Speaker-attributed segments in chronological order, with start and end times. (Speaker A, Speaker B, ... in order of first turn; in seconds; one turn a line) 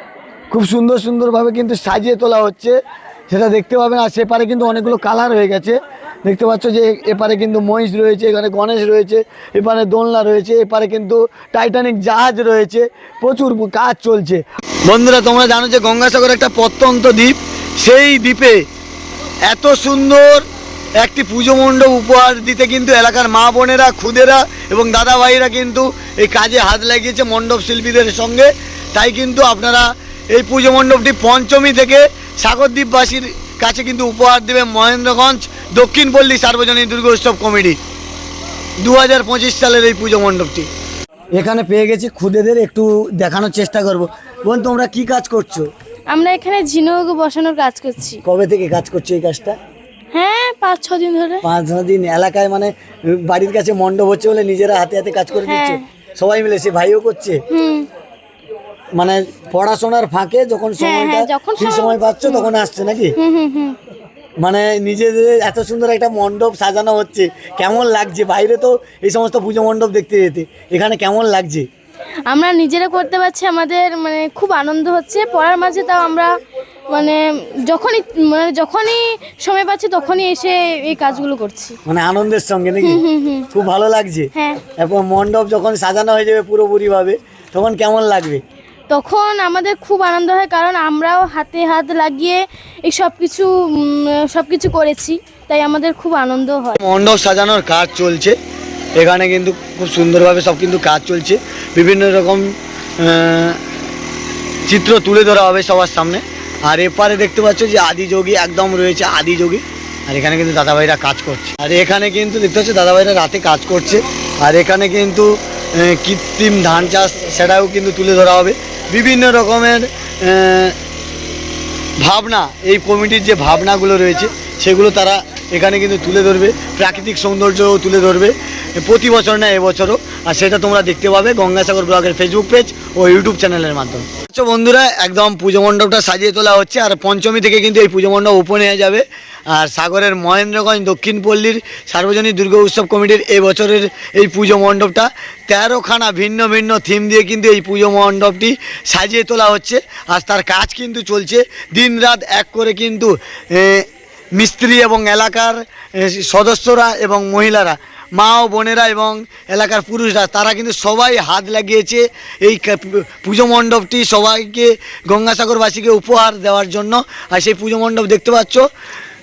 Speaker A: 0.5-2.8
Speaker A: 3.3-18.6
Speaker A: 19.5-20.5
Speaker A: 21.0-37.8
Speaker A: 38.8-40.7
Speaker A: 41.4-45.7
Speaker B: 46.1-48.2
Speaker A: 48.2-49.6
Speaker B: 50.1-51.4
Speaker A: 51.4-57.4
Speaker B: 55.5-55.9
Speaker B: 57.5-57.9
Speaker A: 59.0-63.2
Speaker B: 60.8-62.5
Speaker B: 63.2-63.8
Speaker A: 64.4-71.7
Speaker B: 72.3-76.3
Speaker B: 76.9-81.8
Speaker A: 81.9-88.4
Speaker B: 82.8-83.5
Speaker B: 84.3-84.6
Speaker B: 88.9-96.8
Speaker A: 96.8-98.4
Speaker A: 99.0-103.6
Speaker A: 104.7-120.8
Speaker A: 122.0-168.7